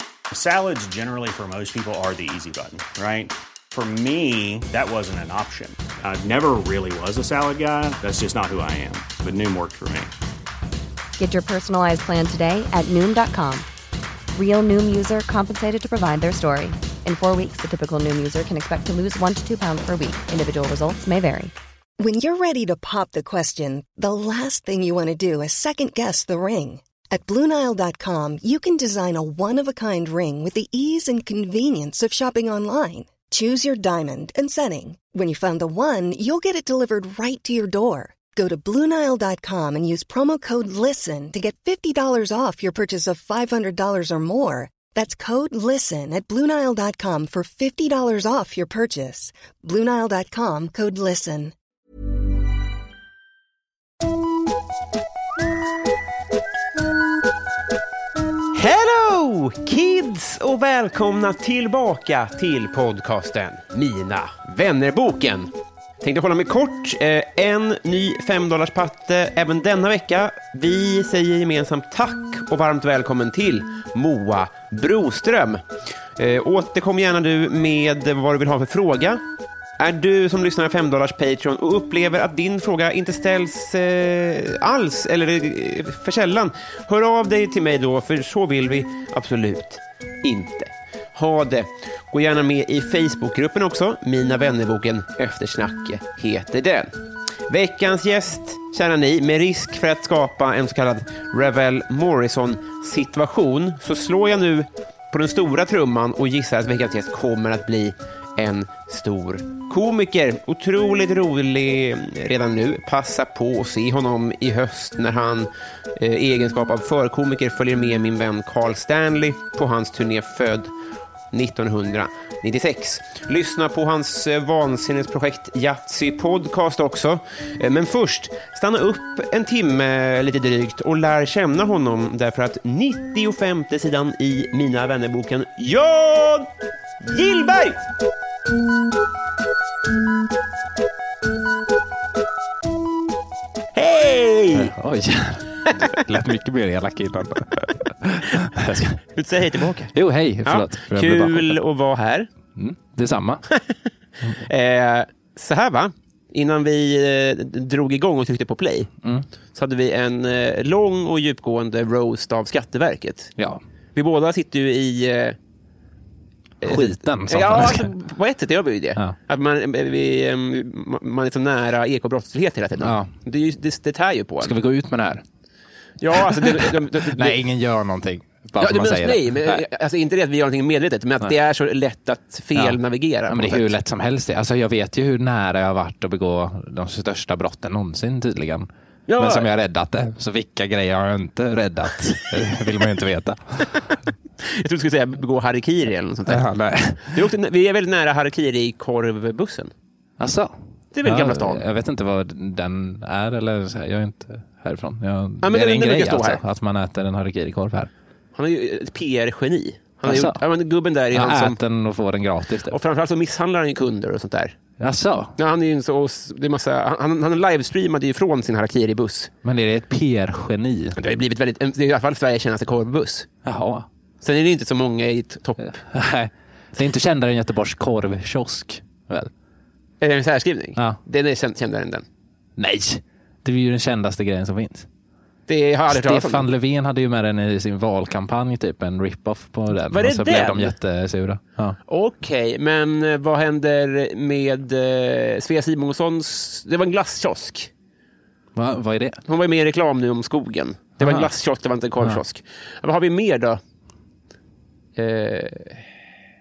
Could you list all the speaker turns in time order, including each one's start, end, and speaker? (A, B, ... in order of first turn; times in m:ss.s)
0:00.3-0:10.1 A
0:11.2-0:13.7 B
0:14.4-0:21.5 B
0:22.0-0:51.5 C
0:58.5-1:15.6 D
1:16.2-1:19.2 D
1:19.8-1:36.9 D
1:37.5-2:00.7 D
2:01.3-2:17.8 D
2:23.7-2:24.7 D
2:24.5-2:29.0 E
2:25.7-2:25.9 D
2:29.1-2:29.9 D
2:29.9-2:31.6 E
2:30.4-2:32.3 D
2:32.6-2:33.4 E
2:34.4-2:38.9 D
2:39.5-2:43.3 D
2:44.0-2:45.4 D
2:46.6-2:54.5 D
2:46.6-2:47.9 E
2:52.8-2:53.1 E
2:54.4-2:55.2 E
2:56.0-2:57.4 D
2:56.2-2:59.6 E
2:58.6-3:03.7 D
3:02.6-3:13.8 E
3:09.1-3:09.5 D
3:14.4-3:16.5 D
3:16.3-3:17.2 E
3:17.0-3:19.7 D
3:20.2-3:27.9 E
3:20.9-3:21.6 D
3:25.4-3:26.4 D
3:28.4-3:31.6 D
3:30.0-3:30.4 E
3:31.1-3:32.8 E
3:32.7-3:34.6 D
3:34.8-3:35.4 E
3:35.4-3:39.3 D
3:39.4-3:41.0 E
3:41.0-3:43.3 D
3:43.4-3:43.9 E
3:44.2-3:45.8 D
3:45.6-3:49.3 E
3:50.0-3:52.1 D
3:52.6-3:54.9 E
3:55.5-3:56.5 D
3:55.9-4:01.8 E
3:59.9-4:00.8 D
4:01.9-4:07.7 D
4:08.6-4:09.2 E
4:09.3-4:13.6 D
4:11.0-4:11.3 E
4:15.0-4:15.8 D